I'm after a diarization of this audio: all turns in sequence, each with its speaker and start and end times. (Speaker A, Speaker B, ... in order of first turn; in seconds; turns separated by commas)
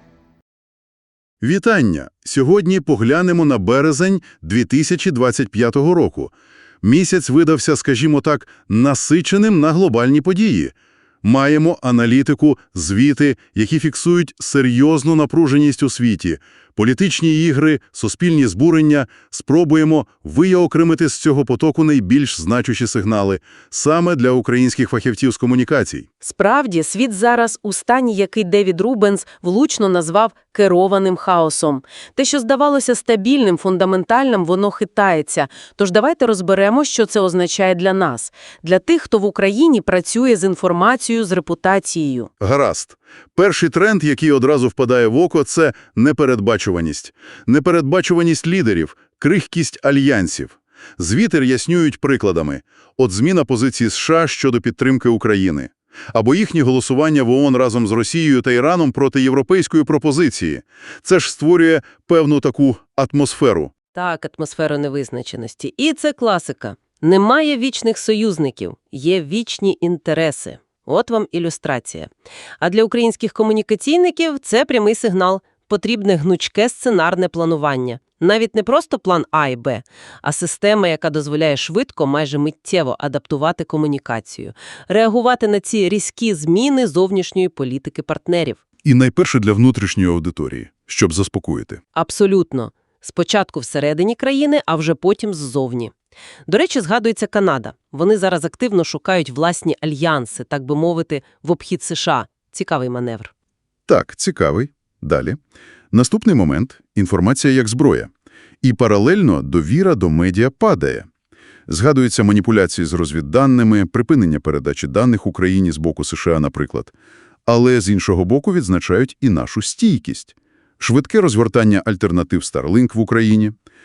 Speaker A: 1.4-26.1, Speaker B: 26.2-42.3, Speaker A: 42.4-63.7, Speaker B: 63.9-88.6, Speaker A: 88.8-91.8, Speaker B: 91.9-95.9, Speaker B: 96.5-103.3, Speaker A: 103.9-105.4, Speaker A: 105.9-108.1, Speaker A: 108.6-111.1, Speaker A: 111.7-116.9, Speaker A: 117.5-123.5